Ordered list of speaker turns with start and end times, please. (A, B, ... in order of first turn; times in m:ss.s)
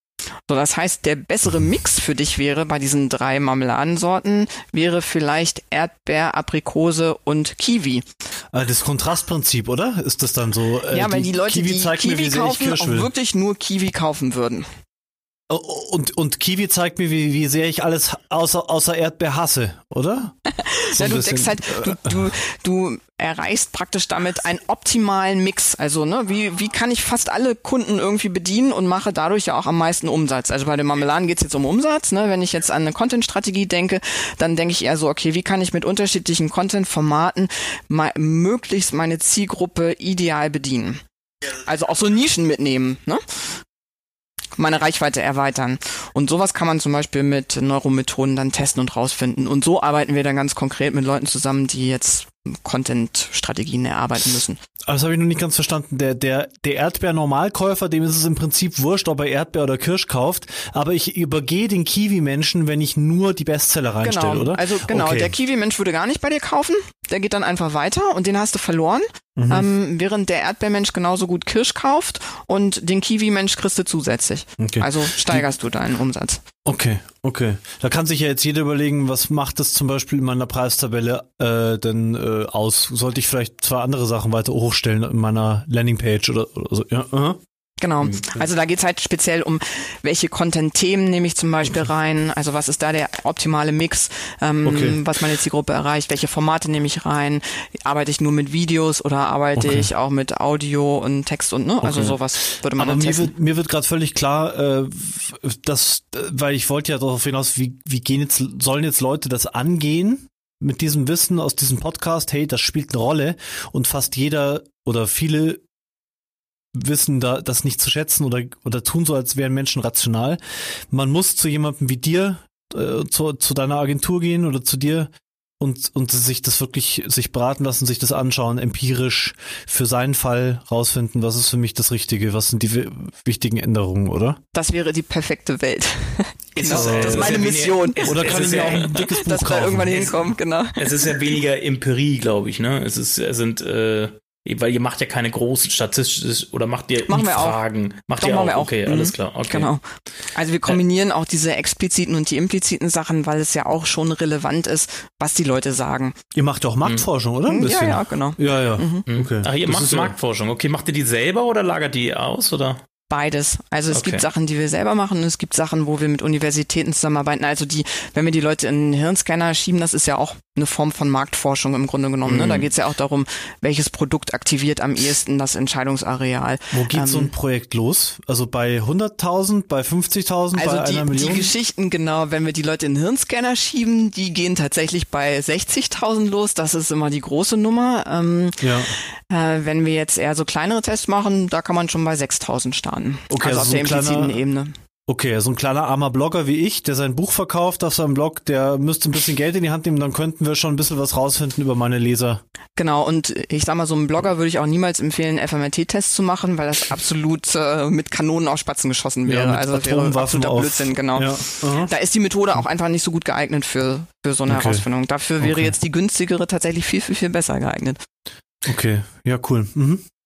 0:00.5-0:08.0 A
0:08.5-0:13.1 B
0:10.9-0:14.7 A
0:15.5-0:20.3 B
0:20.6-0:41.0 A
0:20.9-0:22.1 B
0:41.6-0:43.6 A
0:44.6-0:54.6 A
0:54.9-1:05.3 B
1:04.0-1:16.4 A
1:09.4-1:09.6 B
1:14.6-1:15.4 B
1:16.6-1:27.4 B
1:27.8-1:43.3 A
1:34.6-1:35.0 B
1:39.6-1:39.9 B
1:41.8-1:55.6 B
1:56.7-2:14.4 B
2:14.5-2:21.0 A
2:16.5-2:19.0 C
2:16.7-2:17.4 B
2:18.0-2:20.1 B
2:20.8-2:29.7 C
2:27.1-2:27.6 A
2:28.2-2:29.8 A
2:30.3-2:36.2 A
2:36.3-2:40.1 B
2:37.5-2:39.0 A
2:39.1-2:42.8 C
2:43.1-2:57.3 A
2:43.9-2:44.2 C
2:52.2-2:52.7 C
2:56.7-3:01.5 B
3:00.5-3:08.7 A
3:08.6-3:08.9 B
3:09.3-3:14.7 A
3:13.3-3:14.3 B
3:15.1-3:22.4 B
3:22.8-3:38.0 A
3:29.2-3:31.9 B
3:34.5-3:34.8 B
3:35.4-3:35.7 B
3:38.6-3:40.0 B